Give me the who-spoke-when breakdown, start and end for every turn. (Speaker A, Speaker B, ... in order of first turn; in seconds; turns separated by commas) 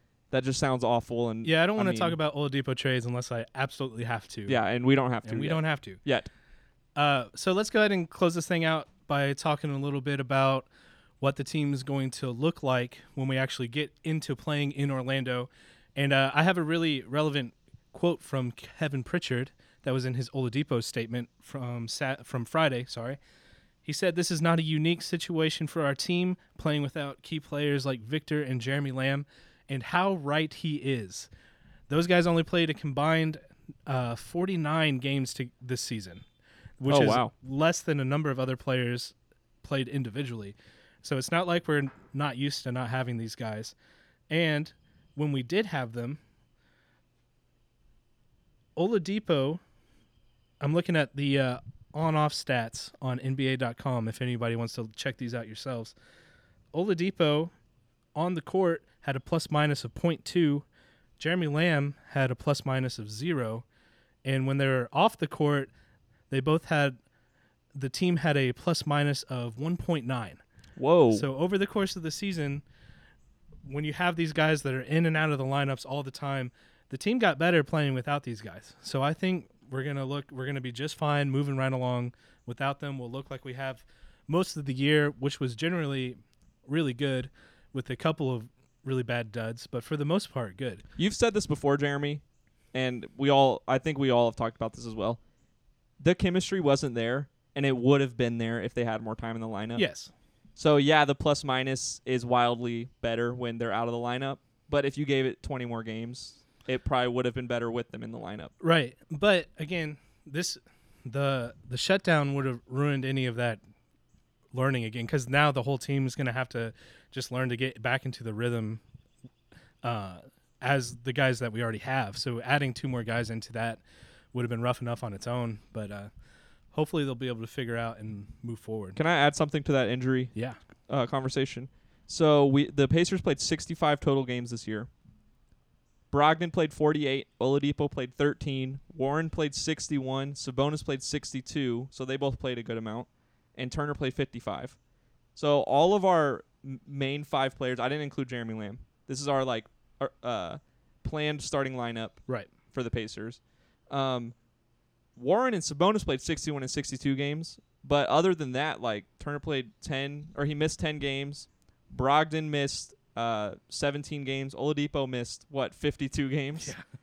Speaker A: 0.3-2.2, Speaker B: 1.4-4.6, Speaker A: 4.5-6.3, Speaker B: 5.2-6.0, Speaker B: 7.0-10.7, Speaker B: 11.2-23.2, Speaker B: 23.9-31.3, Speaker B: 31.9-36.2, Speaker B: 36.8-43.7, Speaker A: 36.9-37.3, Speaker B: 44.3-46.2, Speaker B: 48.8-49.6, Speaker B: 50.6-56.0, Speaker B: 56.7-57.5, Speaker B: 58.2-60.6, Speaker B: 61.2-63.6, Speaker B: 64.2-65.7, Speaker B: 66.3-67.0, Speaker B: 67.7-70.4, Speaker A: 70.8-71.3, Speaker B: 71.1-72.6, Speaker B: 73.6-90.8, Speaker A: 91.0-92.2, Speaker A: 92.7-95.2, Speaker A: 96.0-99.9, Speaker B: 99.7-100.1, Speaker A: 100.6-108.5, Speaker B: 108.6-113.6, Speaker B: 114.5-118.8, Speaker B: 119.8-123.8, Speaker B: 124.3-126.1, Speaker B: 126.7-129.0, Speaker A: 128.9-130.3, Speaker A: 130.9-134.9, Speaker A: 136.1-144.8, Speaker A: 145.4-154.3, Speaker A: 155.2-166.7